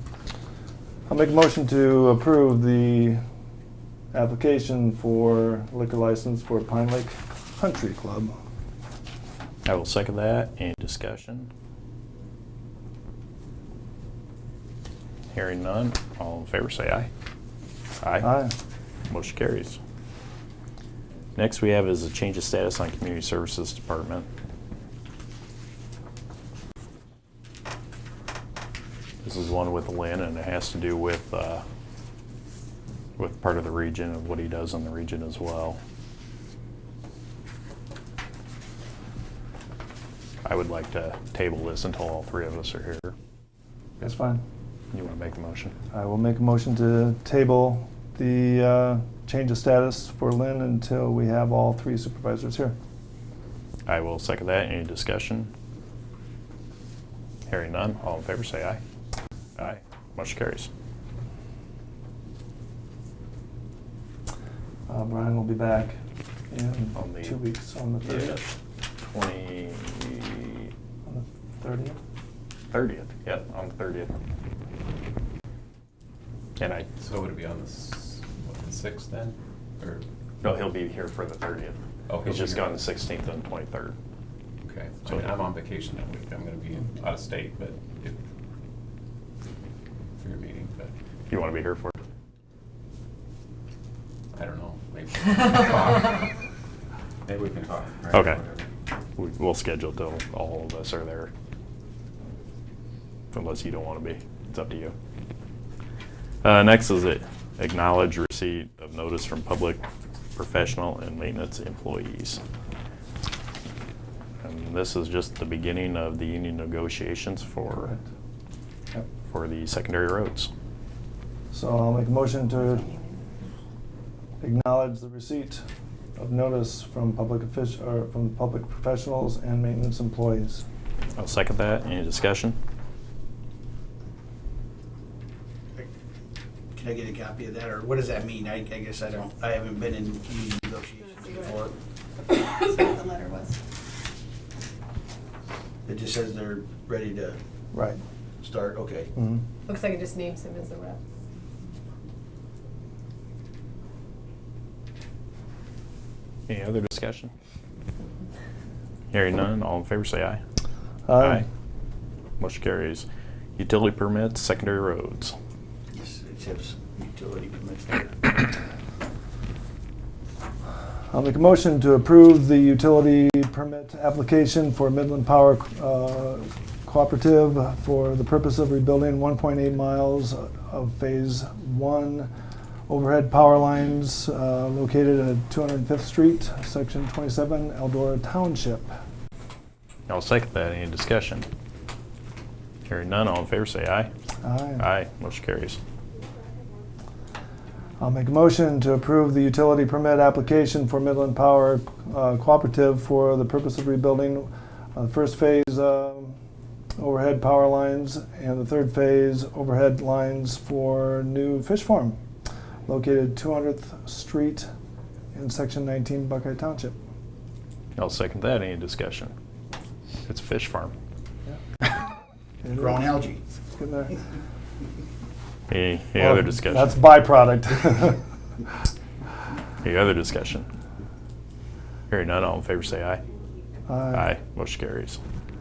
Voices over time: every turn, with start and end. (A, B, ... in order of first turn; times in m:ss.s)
0:01.1-0:03.2 A
0:04.1-0:08.4 A
0:09.6-0:11.5 B
0:15.3-0:17.1 B
0:18.0-0:18.4 B
0:18.2-0:18.5 A
0:19.1-0:19.8 B
0:21.4-0:24.3 B
0:29.2-0:31.6 B
0:33.2-0:35.8 B
0:40.4-0:43.2 B
0:44.0-0:44.4 A
0:44.9-0:45.8 B
0:45.9-0:52.8 A
0:53.9-0:55.5 B
0:57.5-0:58.8 B
0:59.6-1:00.7 B
1:04.9-1:06.0 A
1:06.5-1:08.4 A
1:07.0-1:07.4 B
1:08.0-1:10.7 B
1:11.1-1:12.0 A
1:12.7-1:14.1 B
1:16.6-1:16.9 B
1:17.0-1:20.0 C
1:20.4-1:24.0 B
1:22.1-1:22.7 C
1:24.6-1:28.2 C
1:30.2-1:30.9 C
1:31.3-1:32.0 B
1:34.3-1:36.3 C
1:37.3-1:38.6 C
1:38.1-1:38.4 B
1:39.2-1:41.3 B
1:43.3-1:45.0 B
1:46.4-1:49.8 B
1:50.4-1:52.4 B
1:54.4-1:58.0 B
1:59.3-2:00.5 B
2:01.5-2:02.9 A
2:04.4-2:05.6 A
2:06.2-2:10.6 A
2:11.2-2:12.6 B
2:16.8-2:21.8 D
2:21.2-2:21.6 E
2:22.3-2:23.6 E
2:25.8-2:27.4 D
2:27.7-2:28.0 A
2:28.4-2:29.1 D
2:29.2-2:29.4 A
2:29.7-2:31.0 E
2:36.5-2:37.3 B
2:39.1-2:40.4 B
2:41.1-2:41.4 A
2:41.2-2:41.4 B
2:42.4-2:43.1 B
2:43.6-2:45.3 B
2:45.9-2:48.4 D
2:51.1-3:02.3 A
3:02.9-3:08.9 A
3:10.1-3:11.5 B
3:12.9-3:14.1 B
3:14.4-3:14.8 A
3:14.8-3:15.8 B
3:18.0-3:26.4 A
3:27.0-3:32.2 A
3:32.9-3:34.7 A
3:35.3-3:37.0 A
3:38.0-3:39.3 B
3:40.3-3:40.9 B
3:42.6-3:43.1 A
3:42.8-3:43.4 D
3:43.8-3:44.2 A
3:45.7-3:47.0 B
3:46.2-3:48.2 A
3:49.8-3:50.7 B
3:52.1-3:53.2 B
3:53.9-3:54.3 A
3:54.1-3:55.2 B